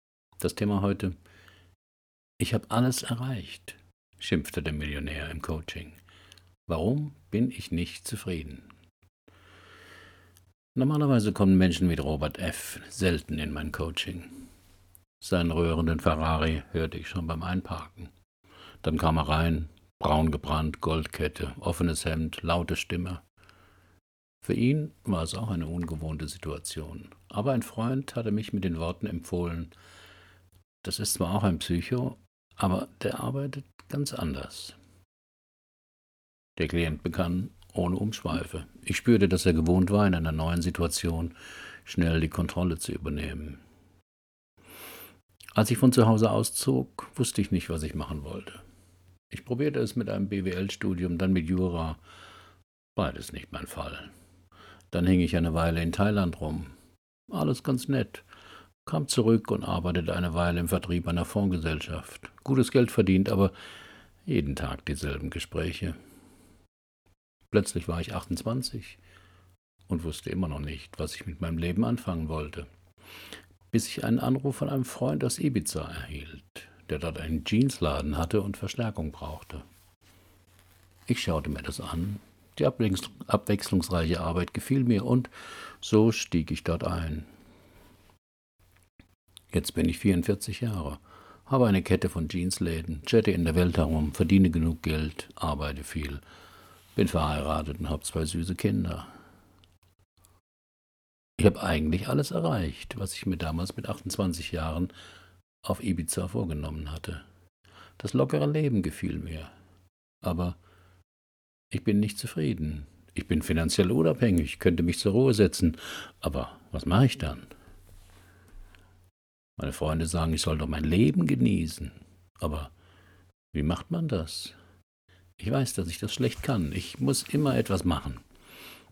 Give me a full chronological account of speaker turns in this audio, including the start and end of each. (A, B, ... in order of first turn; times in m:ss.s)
0:00.4-0:01.2 A
0:02.4-0:06.0 A
0:06.7-0:08.7 A
0:10.8-0:14.3 A
0:15.2-0:18.1 A
0:18.8-0:23.2 A
0:24.4-0:29.7 A
0:30.8-0:34.8 A
0:36.6-0:43.6 A
0:45.6-0:48.6 A
0:49.3-0:52.0 A
0:53.0-0:54.1 A
0:54.9-0:56.7 A
0:57.3-0:58.2 A
0:58.8-1:03.5 A
1:04.2-1:06.0 A
1:07.5-1:09.0 A
1:09.9-1:12.7 A
1:13.7-1:19.6 A
1:21.1-1:27.3 A
1:29.5-1:36.2 A
1:37.0-1:39.1 A
1:41.4-1:44.9 A
1:45.6-1:47.2 A
1:48.0-1:49.5 A
1:50.2-1:50.6 A
1:51.7-1:57.5 A
1:59.6-2:02.7 A
2:03.5-2:04.6 A
2:05.4-2:08.2 A